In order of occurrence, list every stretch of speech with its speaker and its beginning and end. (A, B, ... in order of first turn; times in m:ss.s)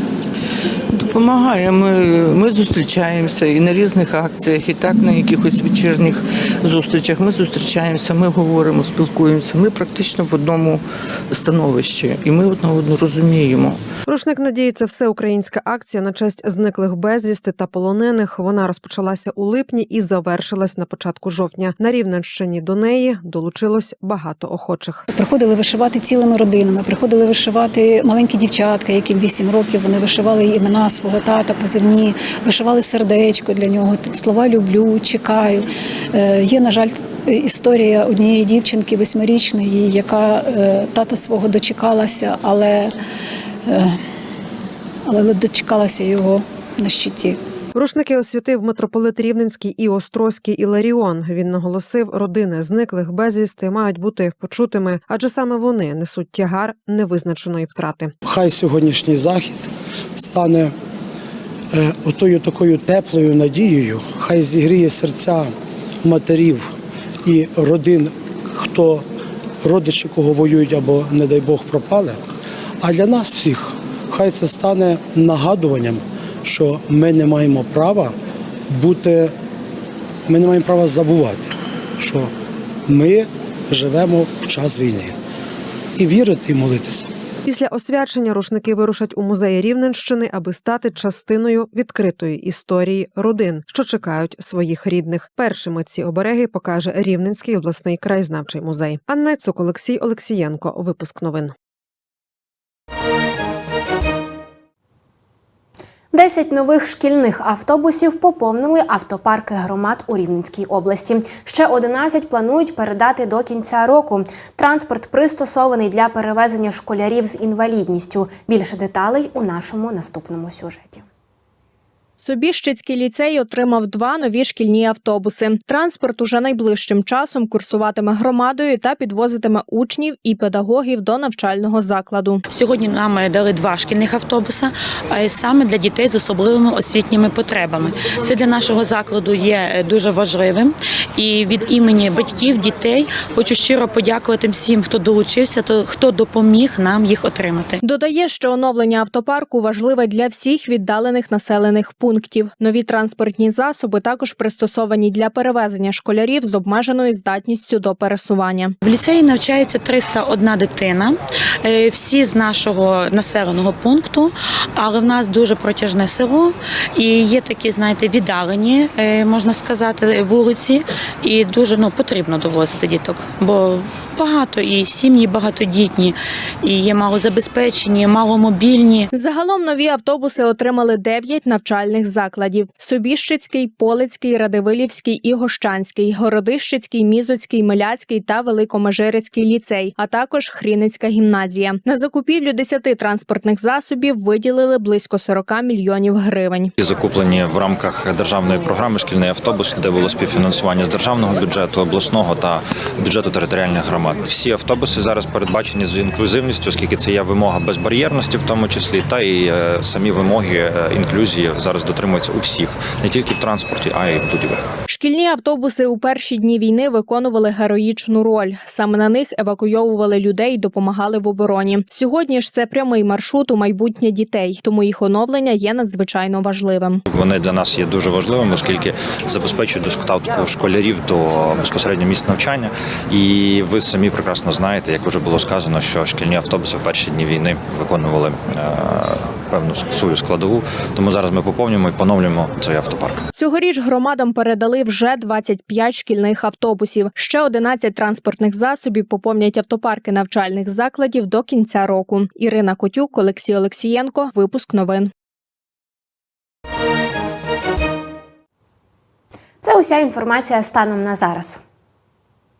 0:00.9-0:10.8 A
0:11.3-0:13.8 A
0:14.1-0:25.0 B
0:25.1-0:42.9 C
0:43.7-0:44.0 C
0:45.1-0:47.4 C
0:47.7-0:58.1 B
0:58.2-1:00.7 D
1:01.7-1:06.7 D
1:07.2-1:09.0 D
1:09.6-1:12.2 D
1:12.8-1:18.1 D
1:18.7-1:19.3 D
1:20.3-1:22.3 D
1:22.9-1:25.1 D
1:26.0-1:27.1 D
1:27.4-1:41.5 B
1:46.1-2:01.0 E
2:02.2-2:12.4 F
2:12.5-2:27.8 G
2:27.8-2:38.7 F
2:38.8-2:59.1 G
2:59.1-3:16.7 F
3:16.8-3:34.6 H
3:34.9-3:47.0 F
3:47.1-4:03.2 H
4:03.3-4:15.1 F
4:19.6-4:21.6 E